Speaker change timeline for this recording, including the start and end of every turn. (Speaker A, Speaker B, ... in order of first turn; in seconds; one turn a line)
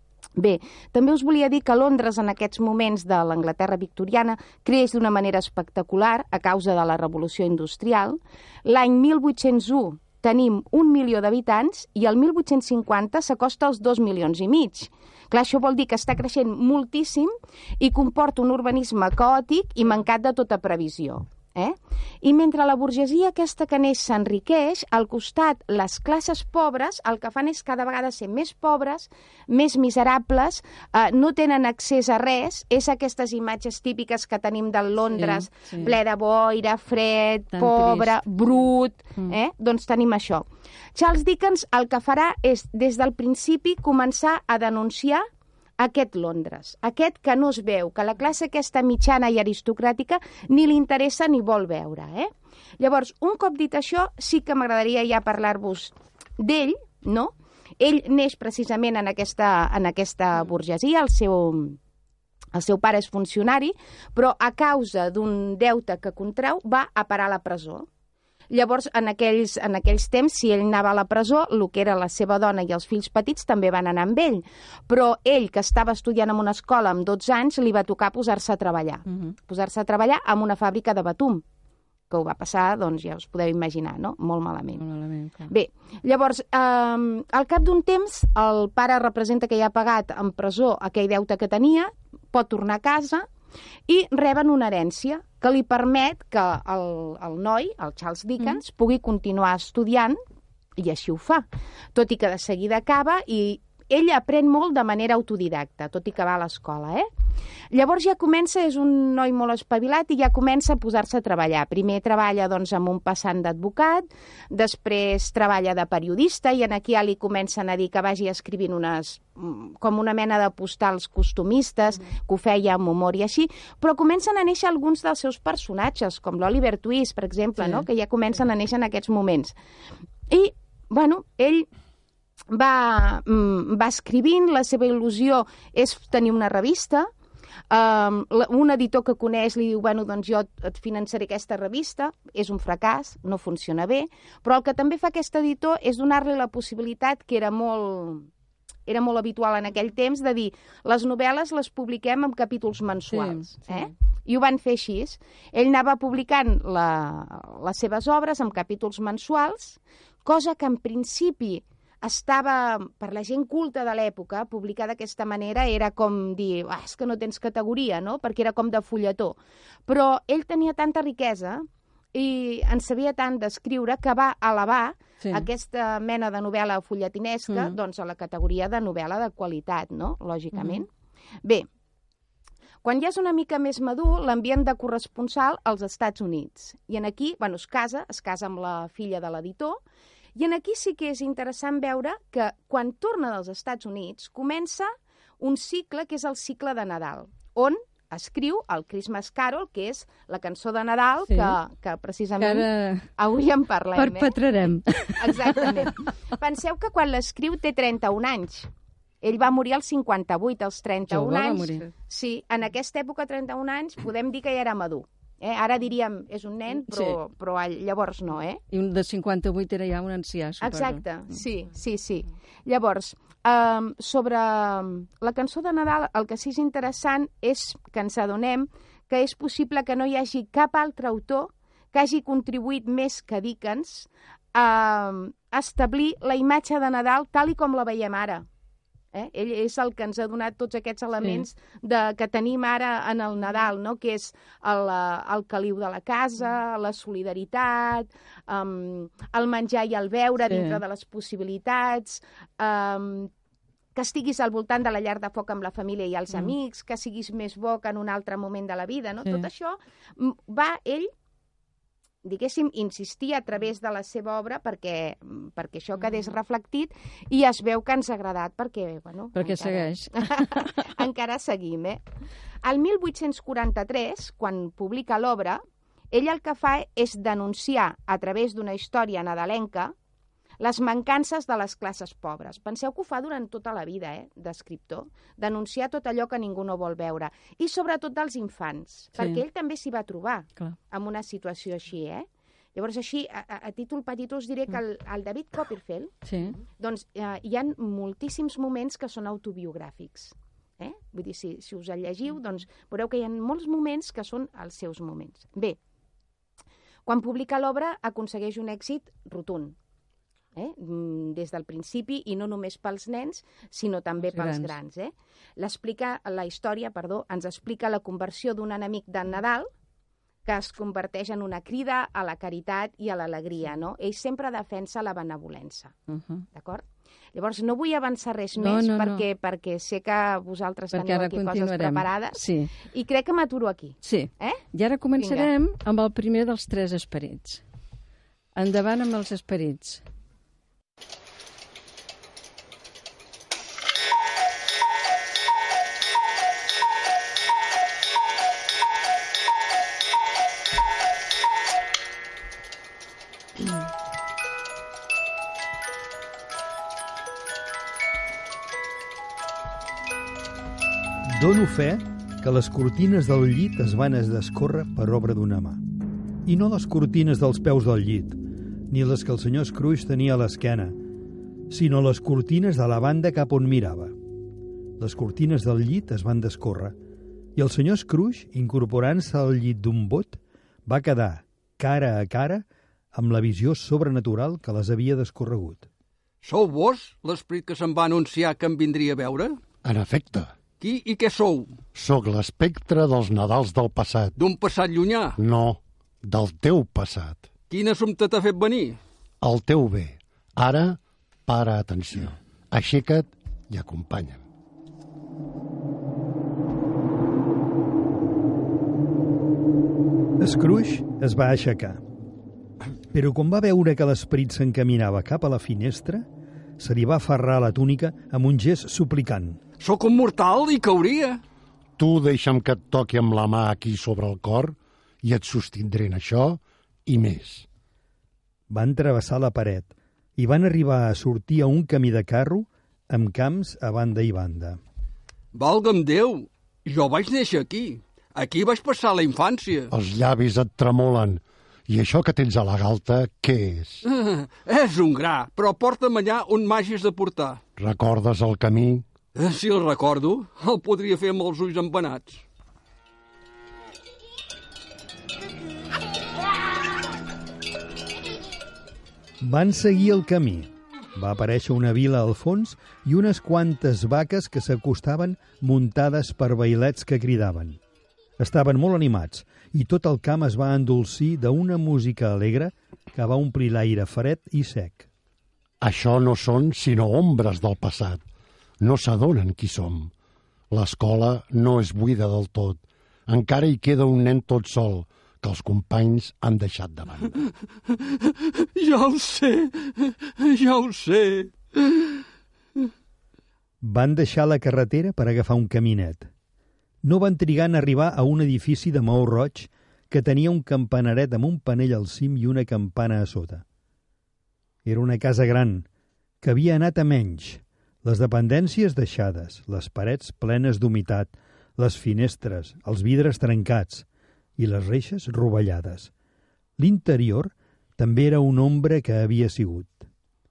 Speaker A: 0.4-45.2
Speaker B: 35.1-35.9
Speaker B: 37.5-38.2
Speaker A: 45.8-61.8
Speaker A: 62.5-67.9
Speaker A: 68.5-81.4
Speaker B: 79.1-79.3
Speaker A: 82.1-84.8
Speaker B: 84.8-85.5
Speaker A: 85.5-93.3
Speaker A: 93.9-100.2
Speaker A: 100.8-107.1
Speaker A: 107.7-129.6
Speaker B: 127.6-127.8
Speaker A: 130.3-131.7
Speaker A: 132.5-137.1
Speaker A: 137.7-148.3
Speaker A: 148.9-180.9
Speaker B: 153.1-153.9
Speaker B: 175.2-175.5
Speaker B: 177.5-177.8
Speaker B: 180.5-180.8
Speaker A: 182.8-189.8
Speaker A: 190.3-204.3
Speaker B: 201.3-201.6
Speaker B: 202.4-203.1
Speaker B: 203.9-205.9
Speaker A: 205.2-208.7
Speaker A: 209.2-218.6
Speaker B: 211.1-211.9
Speaker B: 216.8-217.2
Speaker B: 218.7-221.0
Speaker A: 220.6-238.4
Speaker A: 239.1-253.3
Speaker B: 250.5-250.8
Speaker A: 253.9-261.1
Speaker A: 262.2-272.0
Speaker B: 269.3-270.7
Speaker A: 272.6-275.6
Speaker A: 276.1-279.9
Speaker A: 280.6-296.1
Speaker B: 289.2-289.4
Speaker B: 296.2-296.6
Speaker A: 296.8-305.8
Speaker A: 307.1-309.7
Speaker A: 310.6-319.7
Speaker B: 314.3-314.7
Speaker A: 320.4-325.9
Speaker B: 326.1-326.4
Speaker A: 326.5-334.6
Speaker B: 328.6-329.2
Speaker B: 330.9-332.7
Speaker B: 334.0-337.6
Speaker A: 335.2-335.5
Speaker B: 338.6-340.0
Speaker C: 361.3-365.8
Speaker C: 366.4-368.4
Speaker C: 368.9-370.9
Speaker C: 371.7-374.1
Speaker C: 375.0-376.9
Speaker C: 377.6-385.9
Speaker D: 386.4-389.6
Speaker E: 389.8-390.5
Speaker D: 390.8-391.7
Speaker E: 391.9-394.4
Speaker D: 394.4-395.4
Speaker E: 395.4-397.5
Speaker D: 397.7-399.0
Speaker E: 399.4-404.4
Speaker C: 410.4-412.0
Speaker C: 413.1-416.2
Speaker C: 416.8-419.6
Speaker D: 419.8-421.4
Speaker E: 422.0-427.7
Speaker C: 428.7-434.8
Speaker D: 435.5-439.9
Speaker E: 439.9-444.0
Speaker D: 444.1-447.6
Speaker E: 447.8-449.1
Speaker D: 449.3-452.4
Speaker C: 459.4-467.8
Speaker C: 468.4-475.1
Speaker E: 475.8-478.2
Speaker E: 478.8-480.1
Speaker E: 480.7-487.4
Speaker D: 488.3-492.2
Speaker C: 493.8-496.3
Speaker C: 497.0-503.6
Speaker C: 504.8-505.8
Speaker C: 506.4-514.1
Speaker C: 514.6-516.1
Speaker C: 516.8-520.1